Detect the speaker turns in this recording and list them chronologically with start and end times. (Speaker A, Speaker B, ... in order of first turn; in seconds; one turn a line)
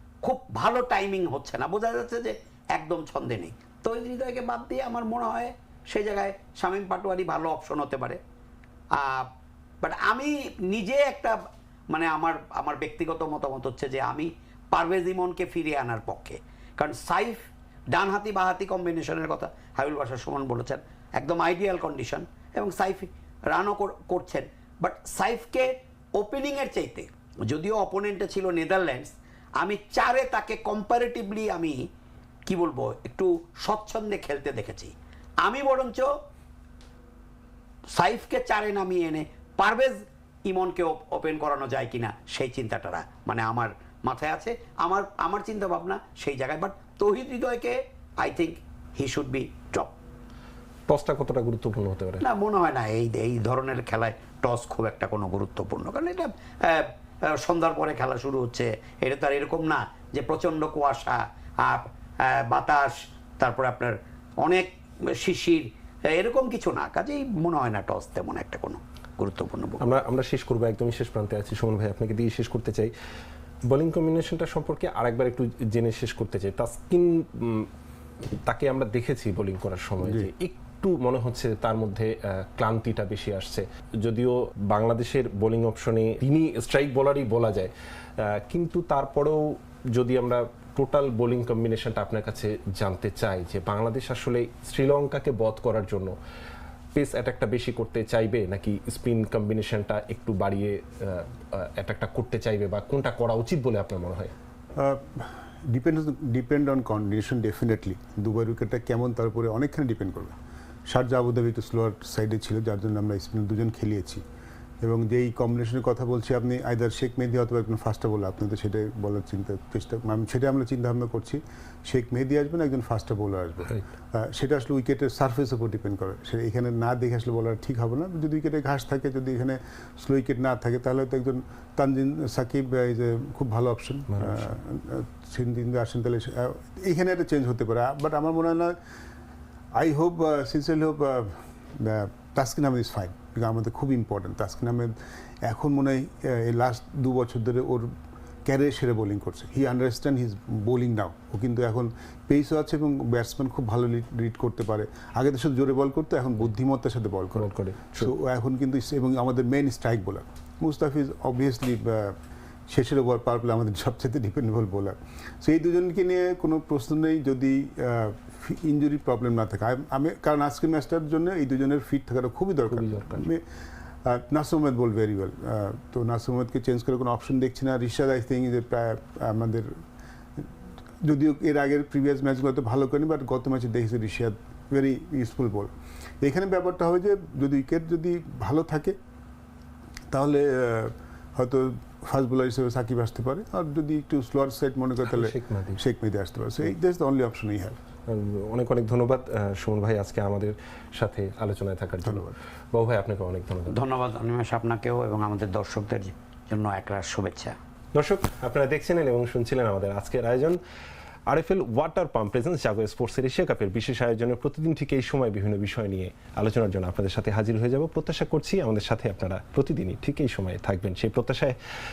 Speaker A: 0.2-8.2
Speaker A: 9.0-9.3
Speaker A: 9.8-11.4
Speaker A: 11.9-31.8
Speaker A: 32.5-34.9
Speaker A: 35.5-36.1
Speaker A: 38.0-50.0
Speaker B: 50.9-52.2
Speaker A: 52.2-69.8
Speaker B: 69.8-72.9
Speaker B: 73.7-77.7
Speaker B: 78.4-96.1
Speaker C: 80.0-80.3
Speaker B: 97.0-104.3
Speaker C: 104.8-110.3
Speaker C: 110.9-114.2
Speaker C: 114.8-138.8
Speaker B: 134.1-134.5
Speaker C: 139.8-147.9
Speaker C: 148.5-162.2
Speaker B: 157.3-158.1
Speaker C: 162.7-173.4
Speaker B: 172.7-173.3
Speaker C: 174.1-179.7
Speaker C: 181.0-185.7
Speaker C: 186.2-189.0
Speaker C: 190.1-197.8
Speaker B: 195.1-195.8
Speaker B: 198.1-203.8
Speaker C: 202.0-202.3
Speaker A: 203.7-207.6
Speaker B: 207.9-210.6
Speaker B: 211.3-221.6